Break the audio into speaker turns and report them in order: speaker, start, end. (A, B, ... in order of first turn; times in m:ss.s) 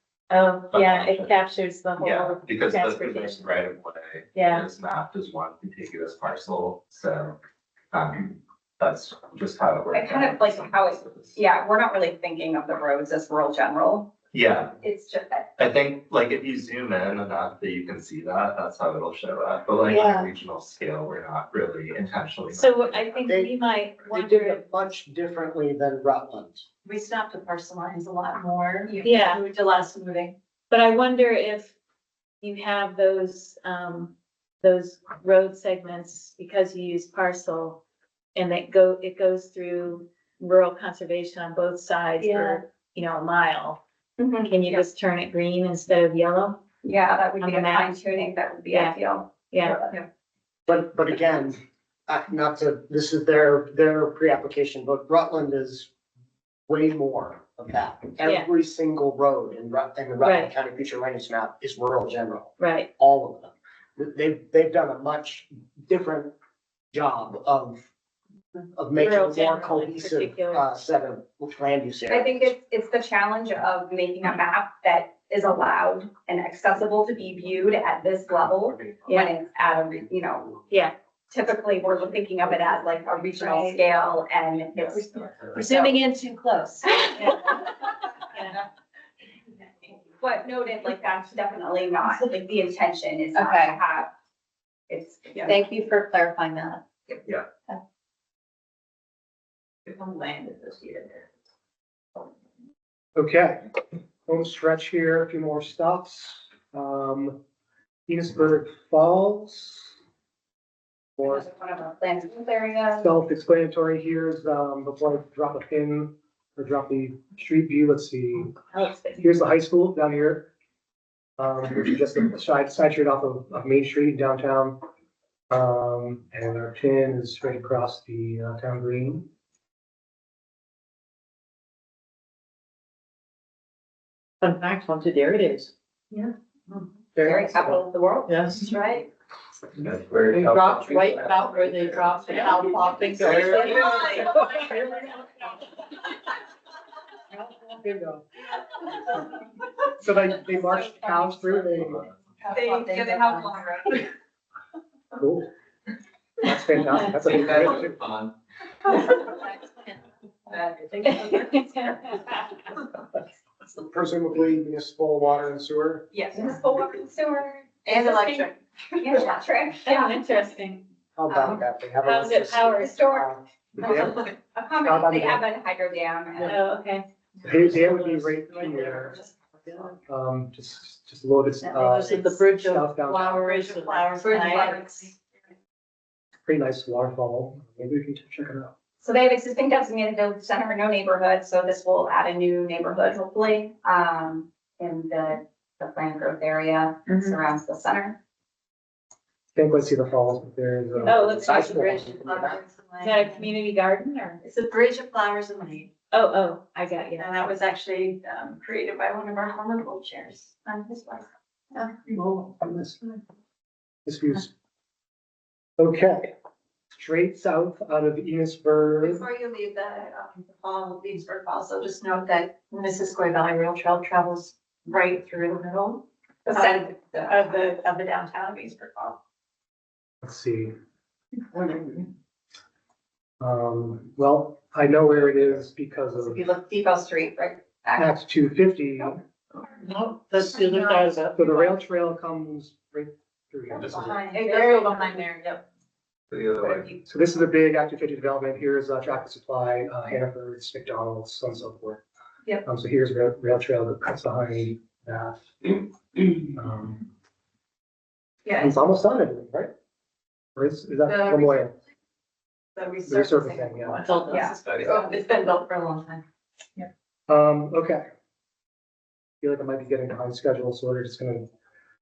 0:00.3-0:03.5 A
0:00.7-0:01.3 B
0:02.0-0:07.4 B
0:04.4-0:04.7 A
0:07.9-0:11.3 B
0:09.9-0:14.1 C
0:14.3-0:14.8 B
0:14.8-0:15.5 C
0:15.6-0:23.1 B
0:22.5-0:24.6 A
0:23.3-0:23.5 D
0:24.1-0:26.6 D
0:26.8-0:30.4 E
0:28.9-0:29.4 A
0:30.7-0:31.7 A
0:32.4-0:37.8 A
0:38.4-0:43.8 A
0:44.2-0:44.8 C
0:44.4-0:46.6 A
0:46.8-0:50.0 C
0:47.4-0:48.0 A
0:48.7-0:49.9 A
0:50.7-0:55.9 D
0:56.7-1:06.3 D
1:00.2-1:00.5 A
1:02.6-1:02.9 A
1:06.9-1:07.8 D
1:08.8-1:12.5 D
1:09.0-1:10.7 A
1:12.1-1:20.6 C
1:19.1-1:19.3 A
1:20.7-1:21.0 A
1:21.3-1:26.0 C
1:23.4-1:23.8 A
1:25.6-1:27.4 E
1:27.1-1:27.4 A
1:28.3-1:28.6 A
1:30.2-1:34.1 C
1:33.4-1:33.7 E
1:34.9-1:35.5 C
1:35.4-1:36.8 E
1:40.0-1:41.1 A
1:43.2-1:43.6 F
1:44.3-1:47.4 F
1:48.1-1:49.9 F
1:51.2-1:51.5 F
1:51.2-1:53.1 C
1:53.0-1:58.6 F
1:58.7-1:59.3 A
1:59.2-2:00.5 F
2:01.4-2:04.8 F
2:05.5-2:09.3 F
2:14.4-2:15.6 G
2:14.8-2:15.7 E
2:17.2-2:19.1 C
2:18.3-2:18.7 E
2:19.8-2:22.0 B
2:20.4-2:24.7 E
2:21.5-2:22.2 G
2:22.1-2:24.2 A
2:23.7-2:24.2 C
2:24.3-2:25.2 F
2:27.3-2:28.3 F
2:30.0-2:32.1 F
2:32.4-2:33.6 E
2:32.5-2:34.1 C
2:35.2-2:35.5 F
2:36.4-2:38.0 F
2:37.4-2:38.3 B
2:39.0-2:40.0 E
2:40.5-2:41.3 C
2:40.9-2:41.2 E
2:41.0-2:42.5 A
2:43.7-2:46.2 D
2:46.1-2:48.4 C
2:47.9-2:49.4 E
2:48.2-2:48.5 A
2:49.0-2:50.3 C
2:49.8-2:50.8 A
2:51.2-2:53.4 D
2:51.3-2:51.6 C
2:52.0-2:53.2 A
2:52.8-2:56.6 C
2:53.8-2:54.3 F
2:54.8-2:55.4 F
2:56.4-2:57.0 A
2:57.4-2:59.2 F
2:57.8-2:59.3 E
2:59.8-3:03.5 F
3:01.6-3:05.1 E
3:03.3-3:04.9 A
3:04.3-3:04.8 C
3:06.4-3:08.7 F
3:09.0-3:18.2 C
3:17.1-3:17.4 A
3:19.6-3:21.2 F
3:21.1-3:22.0 A
3:21.1-3:22.6 D
3:21.2-3:23.5 E
3:23.0-3:24.4 A
3:24.4-3:26.0 E
3:26.1-3:27.4 A
3:27.2-3:32.1 E
3:32.1-3:33.1 F
3:34.1-3:34.5 F
3:35.8-3:36.3 F
3:36.9-3:39.2 F
3:39.0-3:49.2 E
3:46.5-3:47.4 C
3:50.2-3:50.7 F
3:53.4-3:56.4 F
3:56.2-3:58.1 C
3:58.0-3:59.2 F
3:59.8-4:01.4 G
3:59.9-4:01.5 E
4:01.3-4:04.2 F
4:03.8-4:05.6 E
4:04.3-4:05.5 A
4:06.3-4:06.7 B
4:07.1-4:12.0 F
4:12.6-4:17.0 F
4:18.6-4:19.7 F
4:20.6-4:21.7 F
4:21.1-4:21.6 E
4:22.8-4:26.2 E
4:23.1-4:24.1 F
4:24.0-4:24.5 A
4:24.3-4:24.6 C
4:27.3-4:28.0 F
4:29.4-4:31.5 F